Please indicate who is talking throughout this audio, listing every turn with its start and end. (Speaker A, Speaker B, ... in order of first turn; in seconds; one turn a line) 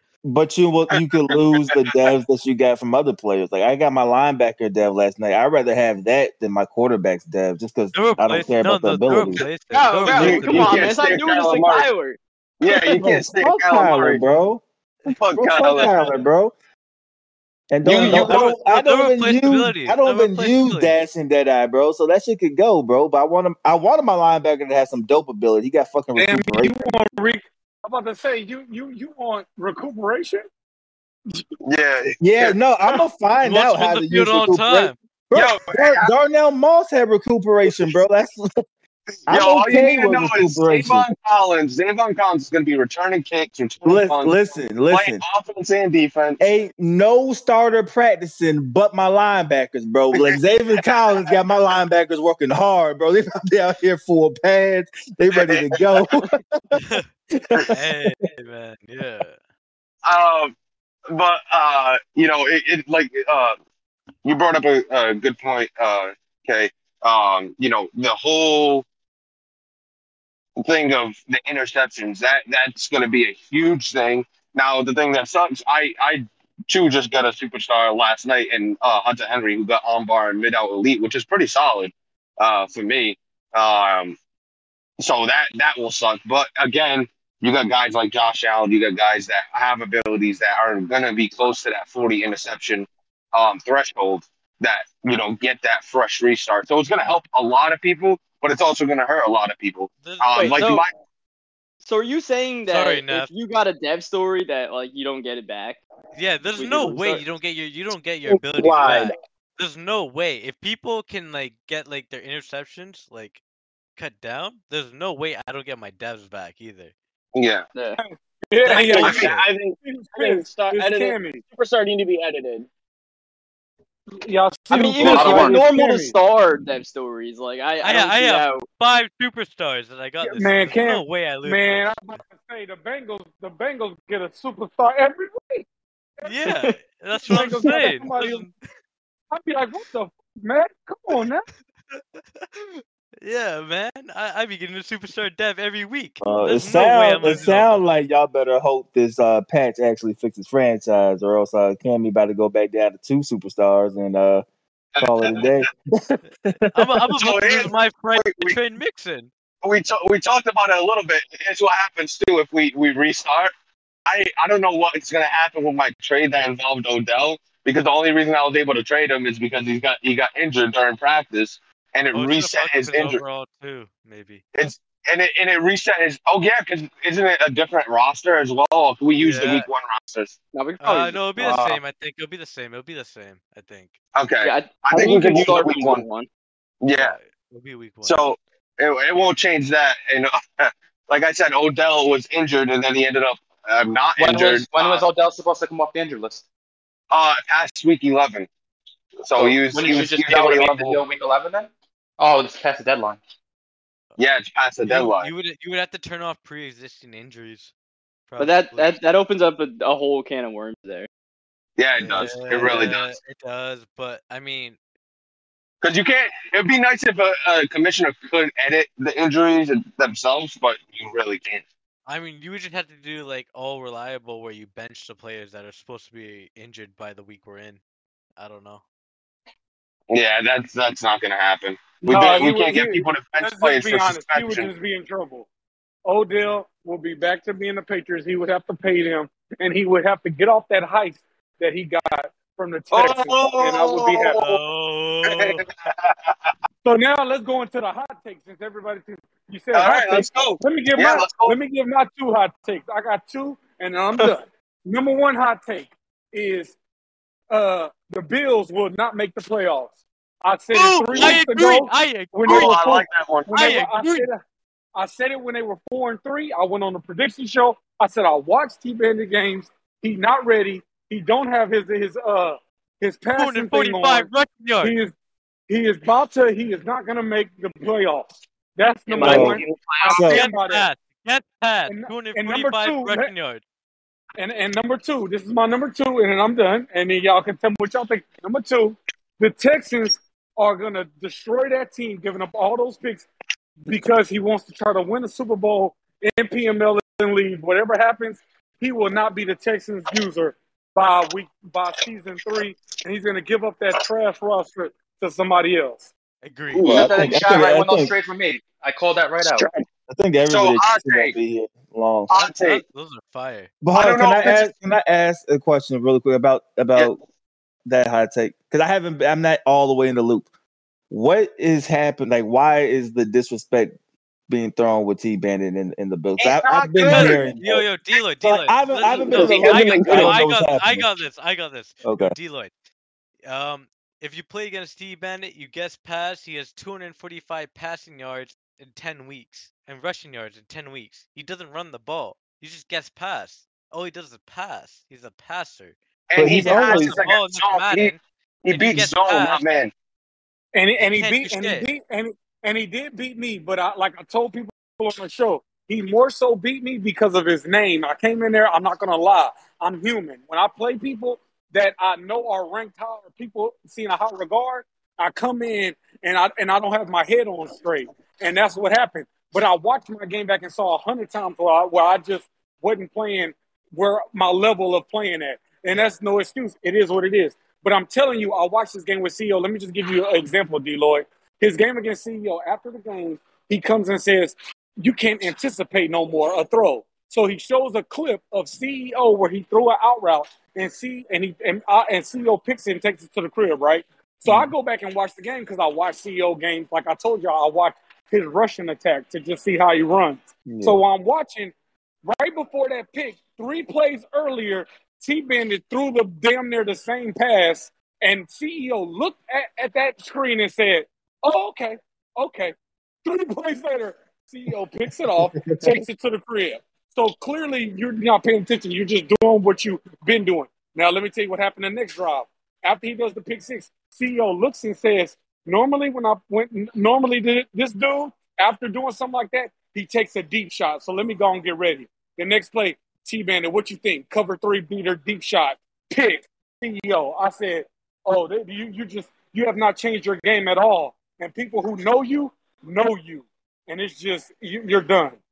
Speaker A: 0.2-9.4
Speaker B: 1.6-1.9
Speaker C: 7.9-10.9
Speaker D: 9.7-13.0
Speaker B: 10.1-11.9
Speaker B: 12.6-14.2
Speaker A: 12.9-14.6
Speaker C: 15.0-16.3
Speaker B: 15.1-16.1
Speaker A: 15.4-16.5
Speaker A: 17.7-26.9
Speaker B: 17.8-18.5
Speaker C: 18.0-21.0
Speaker E: 26.1-30.4
Speaker B: 31.6-32.5
Speaker A: 32.2-38.5
Speaker C: 33.4-34.9
Speaker B: 35.3-36.1
Speaker B: 39.3-44.4
Speaker A: 39.3-41.1
Speaker A: 43.9-45.2
Speaker B: 44.9-46.4
Speaker A: 46.4-56.8
Speaker B: 55.3-56.2
Speaker C: 56.8-57.1
Speaker A: 57.3-57.8
Speaker C: 57.7-59.4
Speaker B: 60.0-60.5
Speaker B: 61.1-63.6
Speaker B: 64.2-68.8
Speaker B: 70.6-84.2
Speaker B: 85.0-100.9
Speaker C: 100.0-100.6
Speaker D: 100.3-100.8
Speaker D: 101.8-105.8
Speaker C: 102.7-103.3
Speaker C: 106.1-113.4
Speaker D: 106.6-107.2
Speaker F: 108.3-109.2
Speaker C: 114.0-116.9
Speaker B: 117.3-117.7
Speaker D: 117.8-118.0
Speaker E: 118.0-121.4
Speaker F: 118.7-122.7
Speaker C: 118.7-119.4
Speaker B: 118.9-119.3
Speaker E: 124.2-126.1
Speaker D: 124.7-128.6
Speaker G: 125.0-125.7
Speaker C: 127.8-132.0
Speaker E: 130.2-135.7
Speaker E: 136.2-136.5
Speaker C: 136.2-138.5
Speaker D: 136.5-136.8
Speaker E: 137.2-138.5
Speaker D: 137.3-138.0
Speaker E: 139.3-141.4
Speaker C: 141.9-147.8
Speaker A: 146.2-154.4
Speaker B: 154.9-155.6
Speaker A: 155.0-156.9
Speaker C: 156.5-159.3
Speaker B: 157.2-158.6
Speaker B: 159.6-163.5
Speaker B: 164.1-173.2
Speaker C: 172.1-174.5
Speaker B: 174.5-180.3
Speaker C: 179.2-179.7
Speaker D: 180.5-181.8
Speaker C: 180.8-183.9
Speaker B: 184.1-186.0
Speaker D: 184.4-186.3
Speaker B: 186.8-187.1
Speaker C: 187.0-188.2
Speaker B: 188.0-195.0
Speaker G: 194.2-196.4
Speaker B: 197.1-198.5
Speaker B: 199.2-201.0
Speaker G: 199.3-203.2
Speaker B: 204.2-205.3
Speaker C: 204.8-207.7
Speaker C: 208.3-208.9
Speaker D: 208.4-211.1
Speaker B: 211.8-213.1
Speaker C: 212.0-214.8
Speaker B: 215.8-221.6
Speaker C: 222.1-227.8
Speaker C: 228.4-228.8
Speaker B: 230.1-234.7
Speaker E: 232.0-235.5
Speaker C: 232.1-232.4
Speaker E: 236.1-244.5
Speaker B: 242.9-244.5
Speaker C: 244.3-245.6
Speaker B: 245.2-246.5
Speaker E: 246.8-256.7
Speaker B: 249.7-251.6
Speaker E: 257.5-264.4
Speaker C: 260.7-262.8
Speaker B: 261.1-261.4
Speaker B: 262.4-263.5
Speaker C: 263.5-264.2
Speaker E: 265.0-274.3
Speaker C: 273.4-274.9
Speaker E: 274.8-275.1
Speaker E: 275.7-280.9
Speaker F: 279.1-280.1
Speaker B: 279.2-280.2
Speaker A: 279.2-280.4
Speaker C: 280.2-283.6
Speaker E: 281.9-283.3
Speaker E: 284.4-293.3
Speaker E: 293.8-306.1
Speaker C: 306.4-307.5
Speaker B: 306.8-307.4
Speaker A: 306.8-308.1
Speaker G: 306.8-309.7
Speaker F: 309.4-309.9
Speaker A: 310.1-312.3
Speaker B: 310.4-311.3
Speaker B: 312.3-312.8
Speaker C: 312.3-313.8
Speaker A: 313.8-317.2
Speaker B: 313.9-314.7
Speaker A: 317.9-320.4
Speaker A: 321.1-323.9
Speaker A: 324.5-327.9
Speaker B: 326.4-327.4
Speaker F: 327.0-327.4
Speaker C: 327.0-332.7
Speaker A: 328.4-331.2
Speaker F: 329.3-330.4
Speaker A: 332.0-332.3
Speaker C: 333.4-345.9
Speaker B: 346.3-349.9
Speaker A: 346.4-347.2
Speaker C: 346.6-349.7
Speaker E: 350.7-401.7
Speaker C: 351.0-351.9
Speaker A: 394.4-394.7
Speaker A: 400.7-401.0
Speaker E: 402.2-445.4
Speaker A: 415.4-415.9